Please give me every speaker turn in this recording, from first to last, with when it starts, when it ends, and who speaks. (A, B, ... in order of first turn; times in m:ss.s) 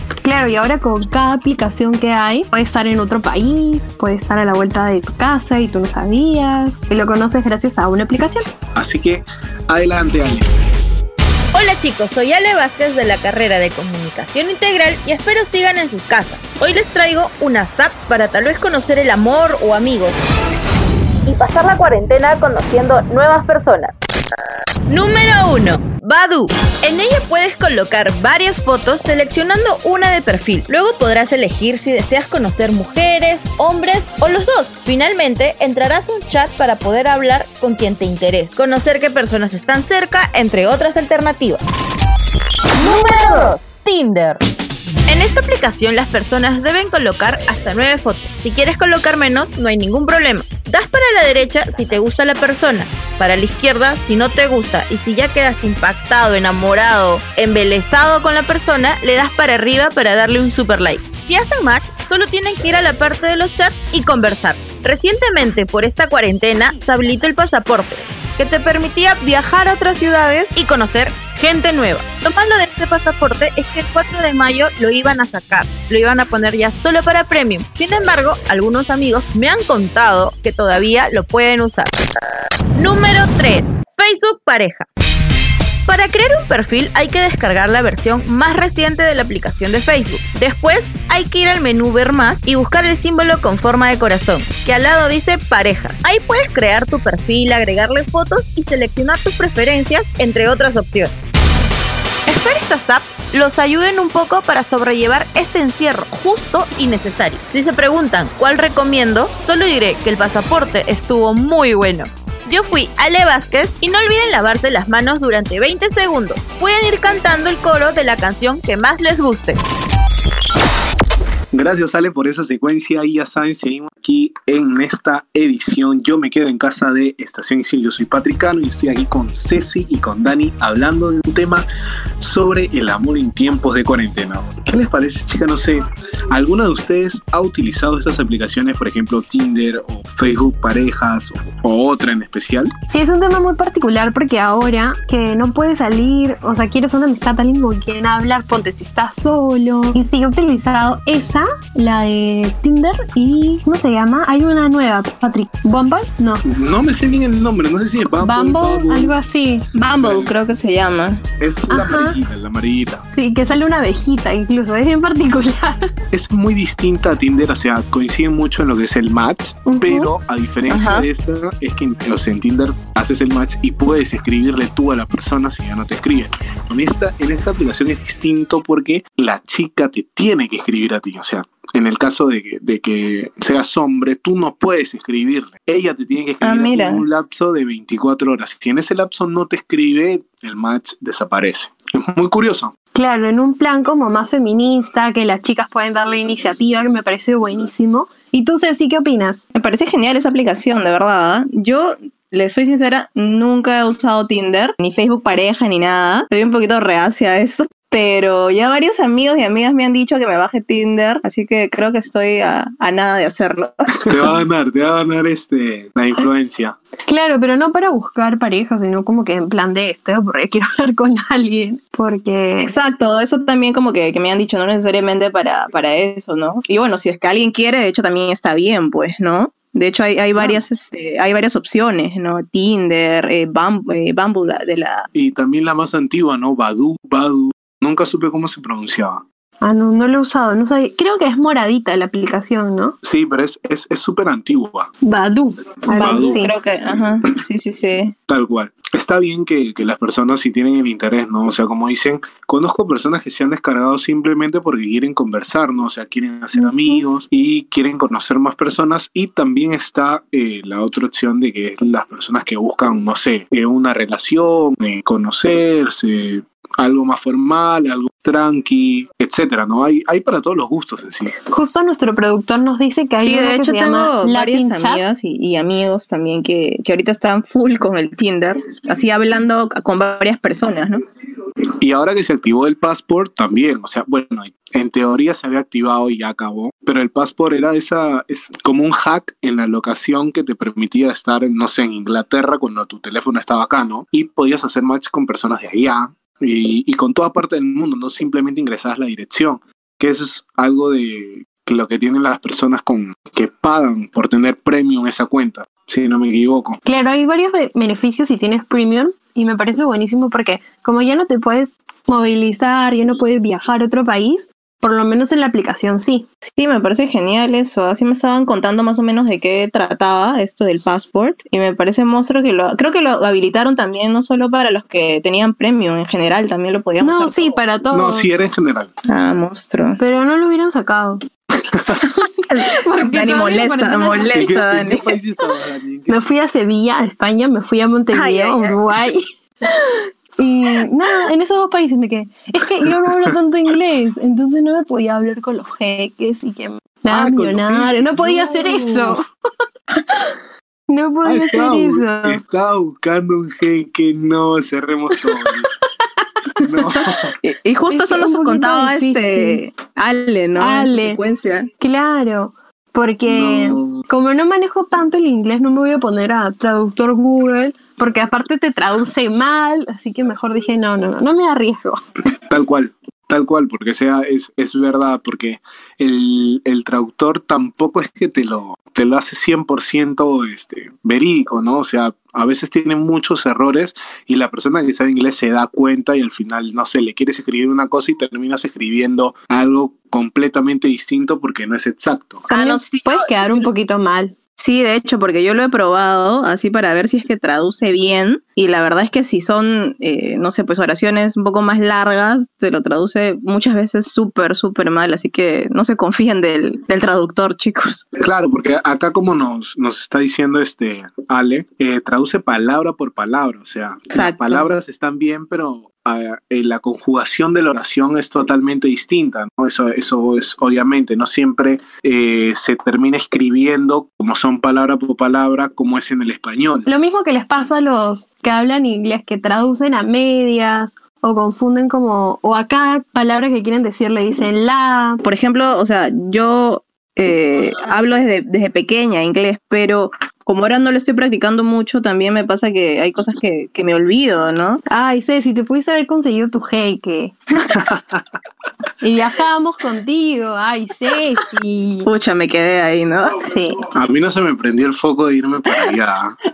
0:00.2-0:08.4 A
0:08.8-0:10.5 B
0:11.5-0:20.2 C
0:21.3-0:23.9 C
0:24.9-0:41.6 C
0:42.8-0:44.4 C
0:45.1-1:21.9 C
1:22.8-1:24.9 C
1:25.9-1:41.1 C
1:42.3-1:59.6 C
2:01.5-2:11.6 B
2:12.2-2:22.7 B
2:22.9-2:36.4 A
2:36.5-2:39.2 B
2:38.2-2:39.6 A
2:39.8-2:41.2 D
2:40.0-2:40.3 B
2:41.4-2:43.0 B
2:41.7-2:42.2 A
2:43.1-2:45.9 A
2:46.1-3:12.7 B
2:49.7-2:50.1 A
2:50.7-2:51.1 D
3:06.4-3:07.0 D
3:13.0-3:19.5 A
3:19.6-3:33.7 D
3:34.1-3:36.8 B
3:37.1-3:42.7 A
3:42.6-3:55.1 D
3:55.1-3:59.2 B
3:59.6-4:03.0 A
4:03.0-4:04.9 B
4:05.0-4:06.5 A
4:05.9-4:08.1 D
4:06.0-4:06.4 B
4:08.3-4:31.3 B
4:16.6-4:17.0 A
4:31.5-4:35.0 A
4:33.2-4:41.0 D
4:41.8-5:06.8 B
5:06.8-5:16.3 A
5:16.5-5:27.6 D
5:27.0-5:28.3 A
5:27.9-5:29.0 B
5:29.1-5:30.0 D
5:30.0-5:31.2 A
5:32.5-5:35.1 D
5:32.7-5:34.5 A
5:34.3-5:36.2 B
5:36.1-5:39.2 A
5:38.1-5:38.8 D
5:40.4-5:49.2 A
5:47.1-5:49.2 B
5:50.9-5:52.4 A
5:51.2-5:55.7 B
5:56.6-5:57.3 B
5:57.4-6:01.7 D
5:57.9-5:59.6 A
6:00.6-6:01.2 A
6:01.8-6:12.0 A
6:03.3-6:04.0 B
6:12.5-6:32.5 B
6:32.5-6:33.7 D
6:32.5-6:34.3 A
6:34.6-6:48.1 D
6:48.2-7:06.9 B
6:54.1-6:54.7 D
7:06.9-7:15.2 A
7:15.2-7:24.8 D
7:24.9-7:27.4 A
7:27.7-7:28.2 B
7:29.0-7:32.1 A
7:32.1-7:33.4 D
7:33.4-7:33.9 A
7:33.9-7:36.4 B